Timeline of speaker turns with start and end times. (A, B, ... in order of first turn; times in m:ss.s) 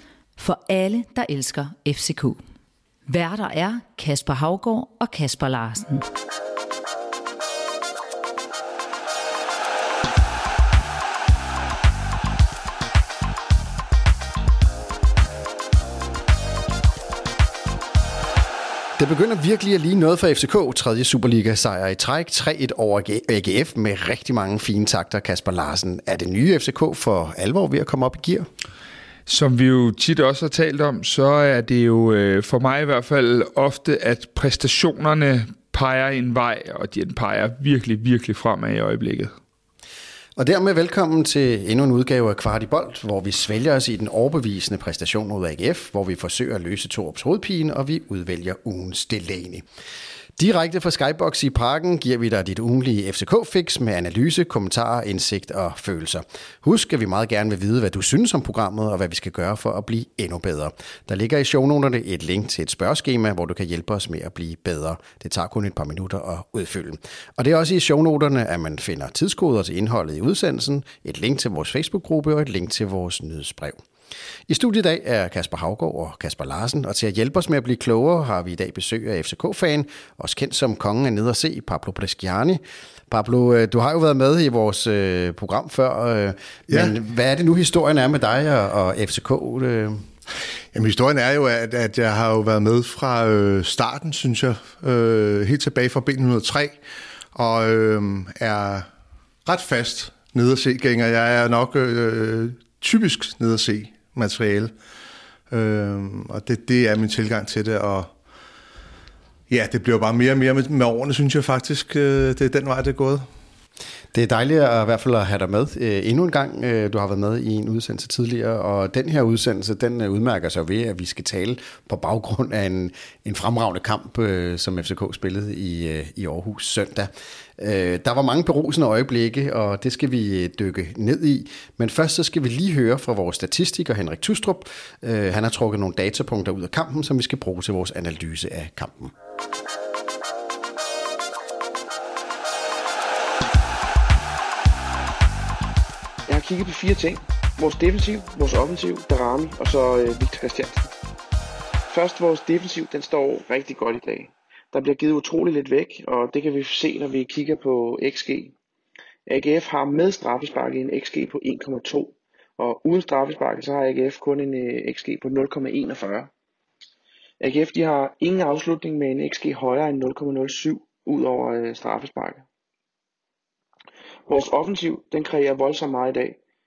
0:00.4-0:02.4 A
0:03.1-0:06.0 A
0:19.0-0:28.5 B
0:29.3-0:39.3 C
0:40.4-0:49.6 B
0:50.4-1:13.8 B
1:14.5-1:30.1 B
1:30.7-1:36.8 D
1:37.3-1:38.9 D
1:39.4-1:44.7 D
1:45.5-1:48.1 D
1:49.5-1:53.2 D
1:54.1-2:19.1 B
2:26.3-2:30.9 E
2:31.9-2:38.5 E
2:39.3-2:46.3 E
2:47.4-2:52.4 E
2:54.3-2:56.4 E